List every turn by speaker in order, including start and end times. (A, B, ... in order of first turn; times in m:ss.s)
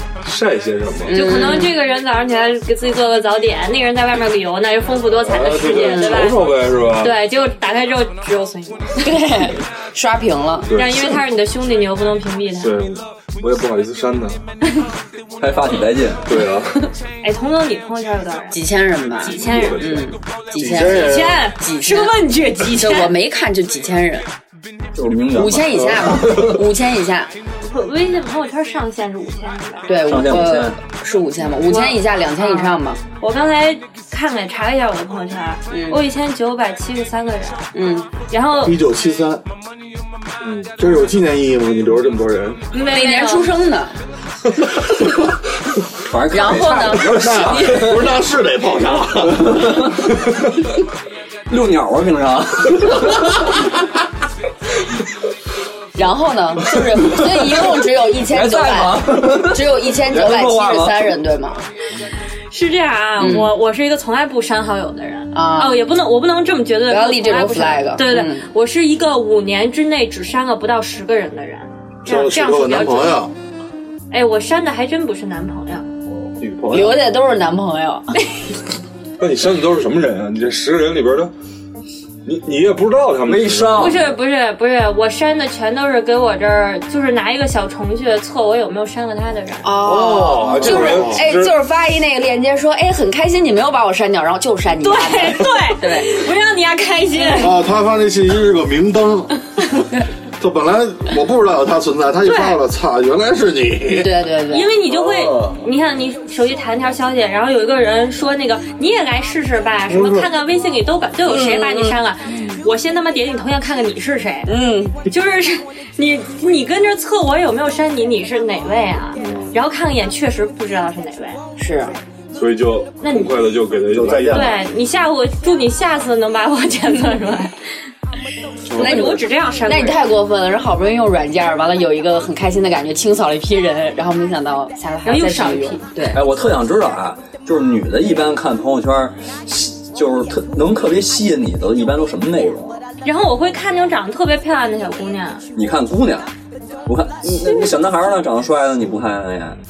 0:00.2-0:01.2 A
0:01.1-0:01.7 B
0:01.1-0:06.4 C
0:05.2-0:07.2 A
0:05.8-0:06.2 B
0:07.0-0:09.0 C
0:09.0-0:10.7 B
0:10.7-0:11.2 A
0:10.7-0:12.8 C
0:12.6-0:14.4 A
0:15.4-0:16.2 D
0:16.2-0:16.9 A
0:17.2-0:18.6 C
0:18.5-0:22.2 B
0:19.2-0:19.9 C
0:19.4-0:20.1 A
0:20.6-0:21.4 E
0:20.7-0:23.2 C
0:22.7-0:24.3 B
0:25.0-0:26.6 D
0:25.3-0:27.3 B
0:27.7-0:30.0 C
0:29.9-0:33.0 B
0:30.1-0:30.8 D
0:31.6-0:37.7 C
0:35.7-0:36.0 B
0:37.7-0:38.1 B
0:38.3-0:38.8 C
0:38.6-0:39.4 E
0:40.4-0:40.9 A
0:40.8-0:42.6 E
0:42.7-0:43.6 C
0:42.7-0:44.0 B
0:46.0-0:48.1 D
0:46.3-0:47.2 B
0:47.0-0:49.8 E
0:49.4-0:50.0 D
0:51.5-0:53.9 D
0:56.0-1:01.6 B
0:57.1-0:57.7 D
0:58.2-1:01.1 D
1:02.5-1:13.2 C
1:03.2-1:03.6 B
1:05.3-1:05.8 B
1:06.9-1:08.5 B
1:12.0-1:13.3 E
1:14.1-1:15.9 C
1:16.1-1:16.6 A
1:16.4-1:16.9 E
1:16.7-1:18.1 B
1:19.2-1:21.3 A
1:22.2-1:24.1 A
1:23.2-1:24.1 D
1:23.7-1:29.7 C
1:29.6-1:36.2 B
1:29.8-1:31.6 A
1:30.6-1:31.0 C
1:30.8-1:31.2 E
1:34.8-1:37.6 C
1:37.3-1:39.8 E
1:40.4-1:44.1 E
1:42.2-1:42.6 C
1:43.9-1:44.7 B
1:44.5-1:54.5 C
1:44.9-1:45.6 E
1:49.9-1:50.3 A
1:51.3-1:52.0 B
1:52.3-1:52.6 A
1:54.5-1:55.0 B
1:55.1-2:01.4 C
1:59.2-1:59.5 A
2:01.6-2:02.0 B
2:02.3-2:04.6 A
2:03.0-2:03.3 C
2:03.9-2:04.6 E
2:04.3-2:07.6 C
2:08.7-2:09.2 A
2:08.7-2:10.0 C
2:08.7-2:16.2 B
2:15.0-2:15.9 C
2:16.1-2:22.8 D
2:23.0-2:25.4 C
2:25.5-2:26.3 D
2:26.8-2:29.6 D